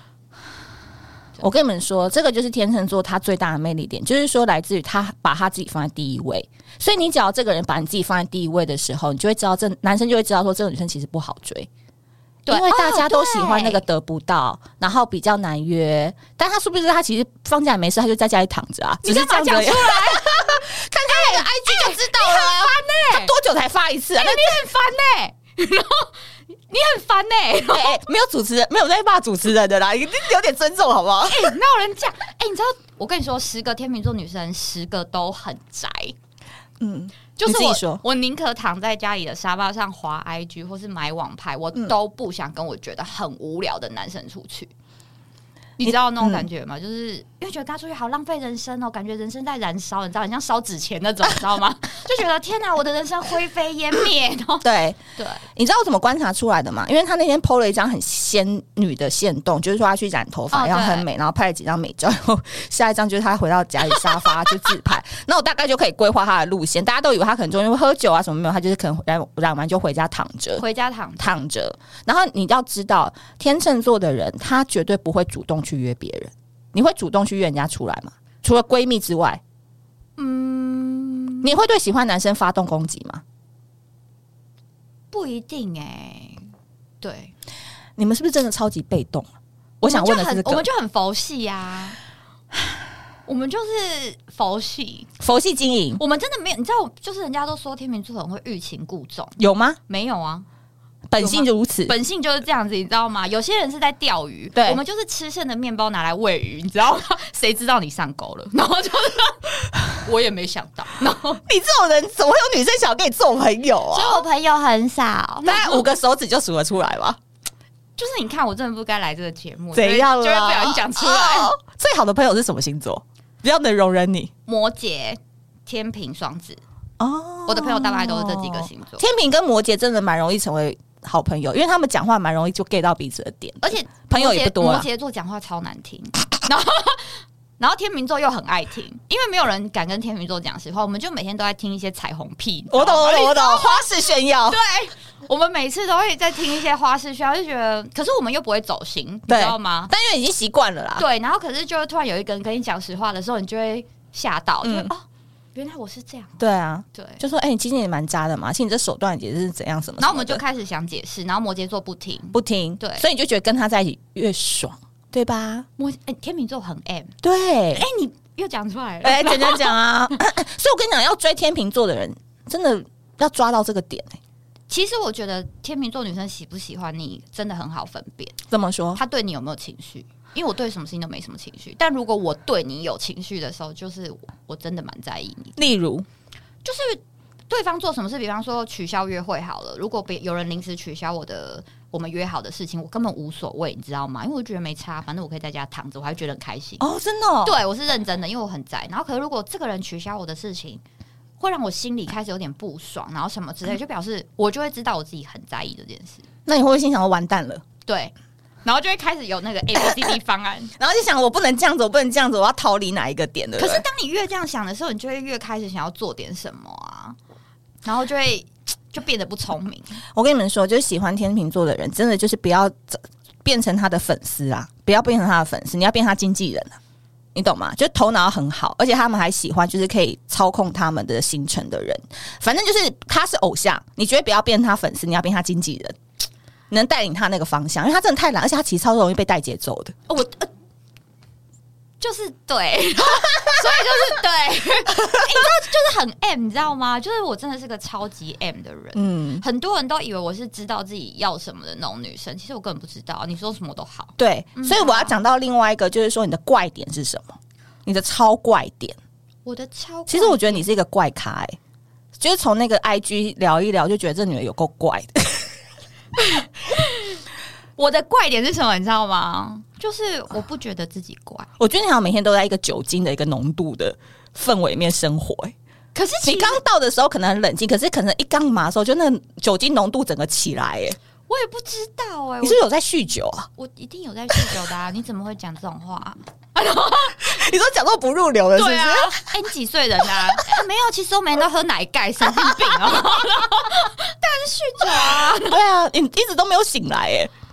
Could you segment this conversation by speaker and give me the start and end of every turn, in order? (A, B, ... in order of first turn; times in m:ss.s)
0:01.4-0:11.7 A
0:12.5-0:13.8 B
0:12.5-0:24.6 A
0:19.0-0:23.3 B
0:24.2-0:26.2 B
0:26.7-0:28.0 B
0:27.7-0:31.5 A
0:31.2-0:36.2 B
0:36.8-0:38.0 A
0:37.4-0:44.7 B
0:45.8-0:54.7 B
0:45.8-0:46.4 A
0:54.6-0:55.0 A
0:55.2-0:55.4 B
0:55.5-1:10.6 A
1:00.5-1:01.1 B
1:10.6-1:11.4 B
1:11.2-1:19.4 A
1:20.2-1:21.5 B
1:21.4-1:23.2 A
1:25.1-1:26.5 B
1:27.0-1:27.3 B
1:28.0-1:29.3 A
1:29.8-1:30.6 A
1:29.8-1:32.0 B
1:33.3-1:35.1 B
1:35.2-1:36.0 A
1:36.0-1:39.4 B
1:39.4-1:39.8 A
1:39.9-1:40.5 B
1:41.1-1:41.9 A
1:41.2-1:51.4 B
1:44.6-1:44.8 A
1:51.5-1:54.2 A
1:53.9-1:55.8 B
1:55.4-1:57.2 A
1:58.0-2:01.6 B
1:59.8-2:04.3 A
2:04.5-2:06.6 B
2:07.0-2:14.9 A
2:07.5-2:09.0 B
2:13.6-2:23.9 B
2:22.7-2:24.6 A
2:24.5-2:29.9 B
2:29.3-2:31.0 A
2:31.0-2:36.4 B
2:34.6-2:34.9 A
2:36.4-2:40.4 A
2:36.9-2:37.2 B
2:40.0-2:43.0 B
2:42.3-2:45.7 A
2:45.8-2:47.2 B
2:47.2-2:47.8 A
2:47.7-2:49.8 B
2:49.0-2:54.2 A
2:54.7-2:58.4 B
2:58.5-2:59.0 A
2:59.0-3:05.6 B
3:05.6-3:06.1 A
3:06.6-3:16.8 B
3:16.8-3:17.6 A
3:17.4-3:20.8 B
3:21.4-3:26.2 B
3:26.5-3:27.6 A
3:27.9-3:28.1 B
3:28.6-3:30.7 B
3:30.8-3:33.8 A
3:33.6-3:37.2 B
3:37.8-3:40.0 B
3:40.1-3:46.8 A
3:47.4-3:56.0 A
3:56.7-4:00.0 A
4:00.1-4:00.5 B
4:02.0-4:15.2 B
4:09.0-4:09.4 A
4:14.2-4:19.0 A
4:19.4-4:20.7 B
4:20.1-4:21.6 A
4:22.2-4:25.5 A
4:26.2-4:27.2 B
4:27.8-4:31.5 B
4:31.6-4:35.6 A
4:36.0-4:36.6 B
4:36.2-4:41.0 A
4:41.3-4:42.6 B
4:42.4-4:43.5 A
4:43.6-4:47.2 B
4:47.2-4:49.3 A
4:48.6-4:55.6 B
4:52.4-4:53.0 A
4:55.0-4:57.3 A